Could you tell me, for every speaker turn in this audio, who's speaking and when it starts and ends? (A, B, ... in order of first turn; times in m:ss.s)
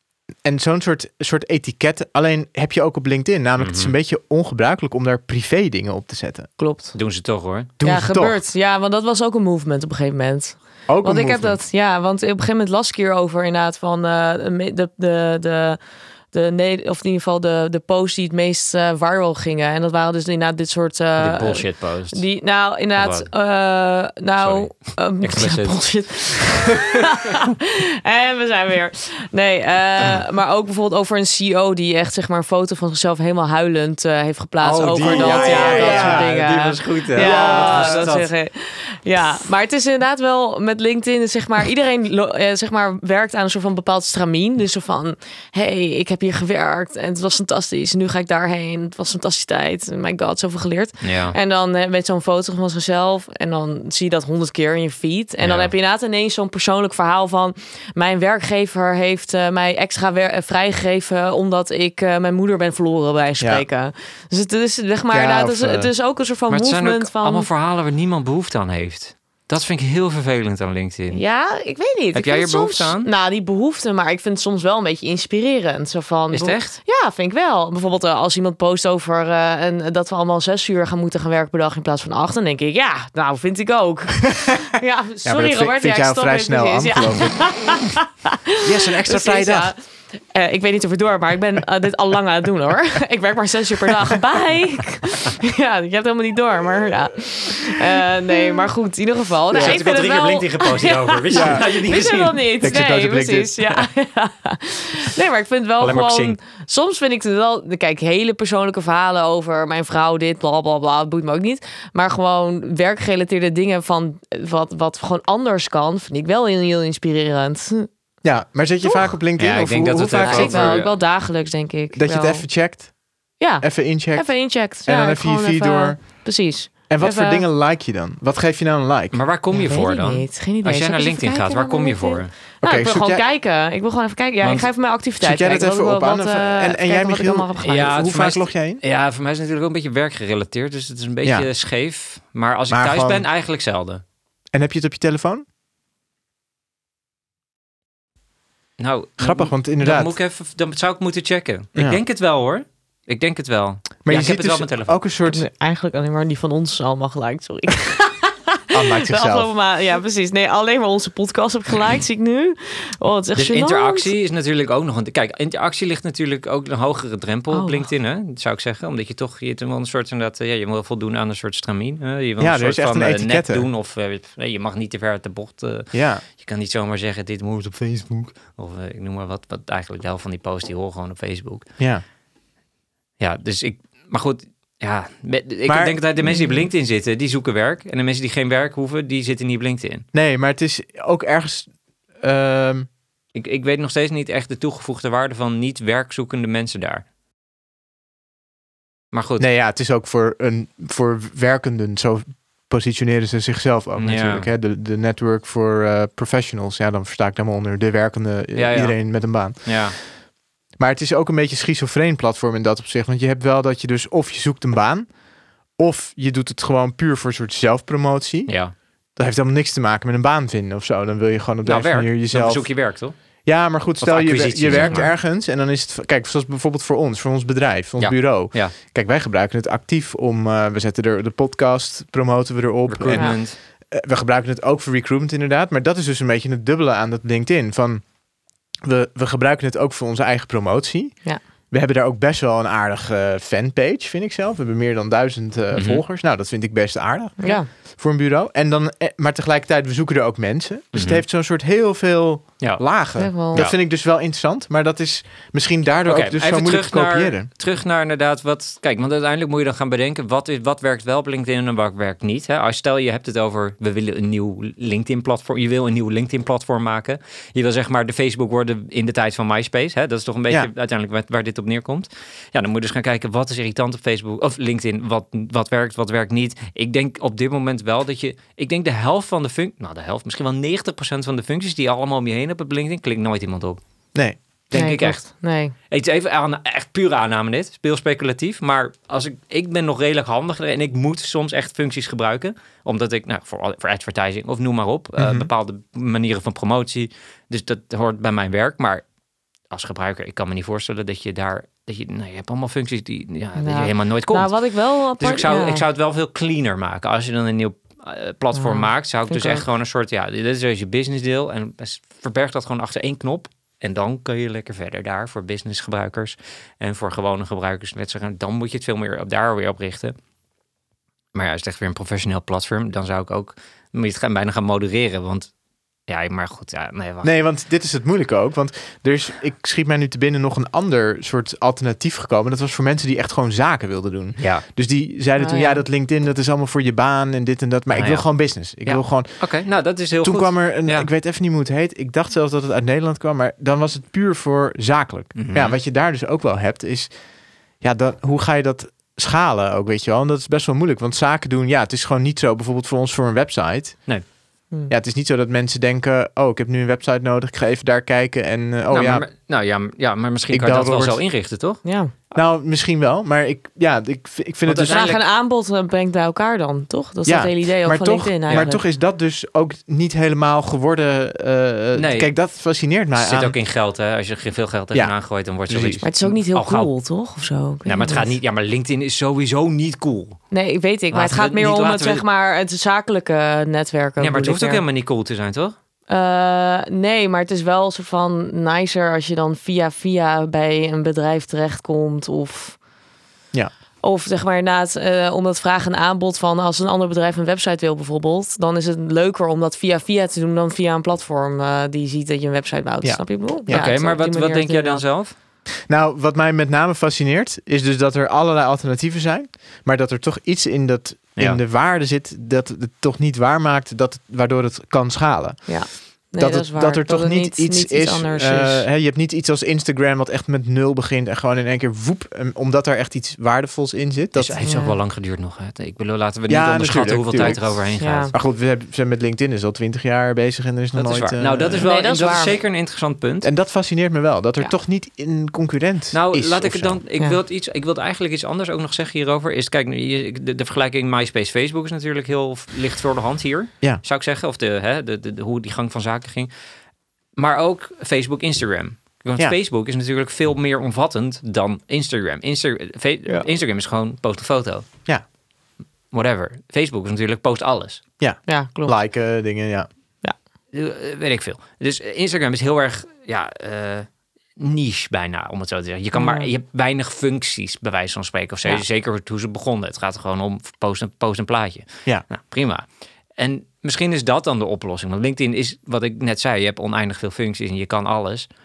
0:00.4-0:06.5 A
0:03.6-0:03.9 B
0:06.6-0:06.9 C
0:06.9-0:07.7 B
0:07.8-0:08.4 A
0:07.8-0:15.8 C
0:10.9-0:11.6 A
0:16.3-1:07.5 C
0:21.2-0:22.2 B
0:23.0-0:23.3 B
0:24.4-0:27.4 B
0:34.6-0:38.3 B
0:35.0-0:36.3 A
0:37.2-0:38.0 A
0:51.0-0:51.4 B
0:55.4-0:55.7 B
1:03.4-1:03.6 A
1:05.1-1:05.9 A
1:06.5-1:11.2 B
1:11.1-1:57.9 C
1:12.1-1:13.1 B
1:16.3-1:16.8 B
1:24.3-1:24.6 A
1:25.2-1:27.4 A
1:28.6-1:29.7 A
1:39.5-1:39.8 A
1:39.5-1:42.4 B
1:41.3-1:41.7 A
1:42.6-1:43.8 A
1:45.8-1:46.4 B
1:58.2-2:00.8 A
1:59.4-2:00.9 B
2:00.2-2:02.5 C
2:01.9-2:02.9 A
2:03.4-2:07.4 C
2:03.6-2:04.3 A
2:04.8-2:06.0 A
2:06.9-2:09.2 A
2:09.1-2:12.3 B
2:09.5-2:17.9 C
2:12.6-2:13.2 A
2:14.4-2:14.7 B
2:15.2-2:18.8 A
2:17.6-2:24.0 B
2:21.2-2:21.5 A
2:22.7-2:23.2 A
2:24.5-2:25.4 A
2:28.8-2:35.0 B
2:29.2-2:30.1 A
2:31.7-2:32.0 A
2:34.0-2:35.4 A
2:35.3-2:44.1 C
2:38.7-2:39.5 A
2:43.3-3:01.6 B
2:47.5-2:47.9 C
2:52.4-2:53.6 A
2:55.9-2:56.2 A
3:01.8-3:02.0 A
3:03.2-3:10.0 B
3:05.7-3:06.0 A
3:06.2-3:06.6 C
3:10.1-3:12.9 A
3:13.3-3:17.0 B
3:19.1-3:19.4 B
3:19.4-3:29.8 A
3:24.0-3:24.5 B
3:28.5-3:30.0 B
3:30.8-3:35.1 A
3:35.8-3:38.5 A
3:38.5-3:38.7 B
3:39.2-3:42.7 A
3:41.6-3:43.1 B
3:43.4-3:58.0 A
3:44.0-3:45.1 B
3:44.7-3:45.1 C
3:48.0-3:48.7 B
3:52.9-3:53.6 B
3:58.8-4:17.5 A
4:05.7-4:06.0 B
4:07.4-4:07.7 C
4:10.9-4:11.2 B
4:13.2-4:13.6 C
4:16.0-4:43.8 B
4:44.1-4:44.4 A
4:44.7-4:45.3 B
4:44.7-4:45.7 C
4:45.9-4:59.0 B
4:55.2-4:55.5 A
4:59.7-5:04.6 B
5:03.6-5:05.8 C
5:05.2-5:20.1 B
5:08.5-5:09.6 C
5:21.3-5:25.5 B
5:26.1-5:27.3 B
5:27.2-5:39.5 A
5:34.4-5:34.6 B
5:35.4-5:35.8 C
5:37.9-5:38.3 B
5:38.8-5:41.1 B
5:40.2-5:47.1 A
5:45.3-5:45.8 B
5:47.8-5:54.1 A
5:54.9-5:59.2 A
5:58.9-6:01.8 B
6:00.5-6:01.2 A
6:01.8-6:02.1 C
6:02.3-6:05.1 A
6:04.6-6:05.2 B
6:04.8-6:08.8 C
6:07.2-6:13.5 A
6:11.9-6:12.3 B
6:13.2-6:16.9 B
6:15.7-6:16.0 A
6:16.0-6:18.3 C
6:17.8-6:20.4 B
6:20.5-6:24.8 C
6:21.1-6:22.2 B
6:24.2-6:25.7 B
6:26.1-6:32.8 C
6:34.0-6:45.0 C
6:43.0-6:43.9 A
6:43.7-6:45.3 B
6:45.9-7:04.6 A
6:55.7-6:58.8 C
7:04.3-7:08.3 B
7:04.6-7:05.0 C
7:06.5-7:11.9 A
7:07.4-7:08.3 C
7:10.9-7:13.5 B
7:11.8-7:12.6 C
7:13.4-7:17.0 A
7:16.1-7:26.5 B
7:27.4-7:34.9 B
7:36.1-7:38.0 B
7:38.2-7:39.9 A
7:38.5-7:38.9 C
7:40.7-7:52.8 B
7:46.1-7:46.5 C
7:53.4-7:58.5 B